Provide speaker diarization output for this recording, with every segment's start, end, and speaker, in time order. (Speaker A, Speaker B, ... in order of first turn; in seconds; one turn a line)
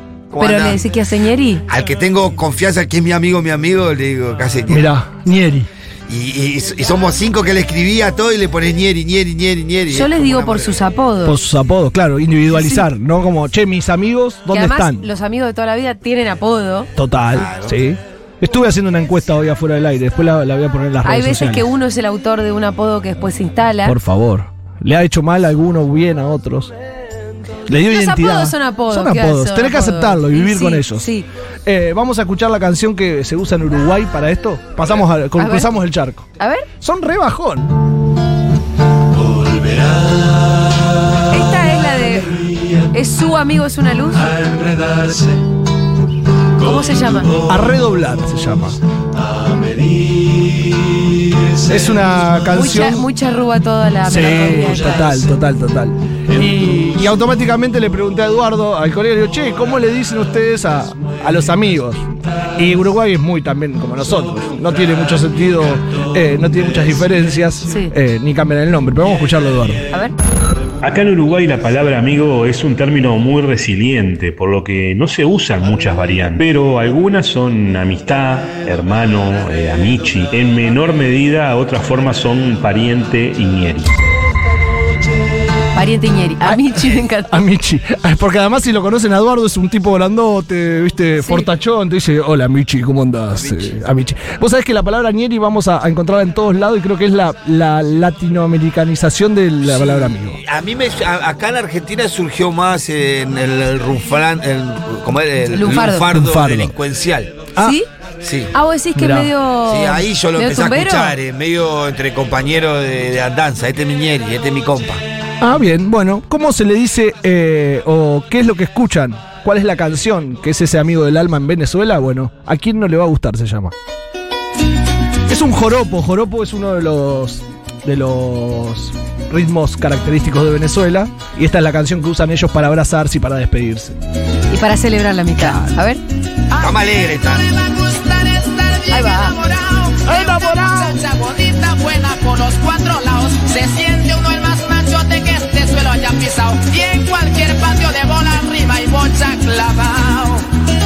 Speaker A: 0.3-0.8
Speaker B: 0.4-1.6
Speaker A: 1.7-4.9
Speaker C: 4.7-5.7
Speaker A: 6.1-10.8
Speaker B: 9.9-11.4
Speaker C: 11.2-15.1
Speaker B: 12.5-12.9
Speaker B: 14.5-16.9
Speaker C: 16.9-21.6
Speaker A: 17.3-17.8
Speaker B: 21.0-24.0
Speaker C: 23.8-26.7
Speaker C: 27.7-31.1
Speaker B: 27.9-31.3
Speaker C: 31.6-36.3
Speaker B: 35.4-35.7
Speaker B: 36.4-36.7
Speaker C: 36.8-37.8
Speaker B: 41.3-44.3
Speaker B: 46.6-47.4
Speaker C: 47.5-48.8
Speaker C: 51.7-53.1
Speaker B: 52.5-55.3
Speaker C: 54.0-69.8
Speaker B: 67.7-67.9
Speaker D: 70.8-84.0
Speaker B: 85.7-87.4
Speaker C: 87.3-100.4
Speaker B: 91.2-91.5
Speaker A: 93.3-93.8
Speaker A: 99.7-107.5
Speaker B: 105.5-106.1
Speaker C: 105.8-106.7
Speaker B: 107.6-107.9
Speaker A: 108.2-108.5
Speaker B: 108.5-111.1
Speaker C: 109.0-109.3
Speaker A: 109.6-115.0
Speaker C: 115.4-123.7
Speaker C: 125.3-134.0
Speaker B: 134.5-136.0
Speaker C: 135.4-135.7
Speaker E: 136.5-150.4
Speaker A: 136.6-137.4
Speaker B: 138.9-139.4
Speaker C: 140.1-141.0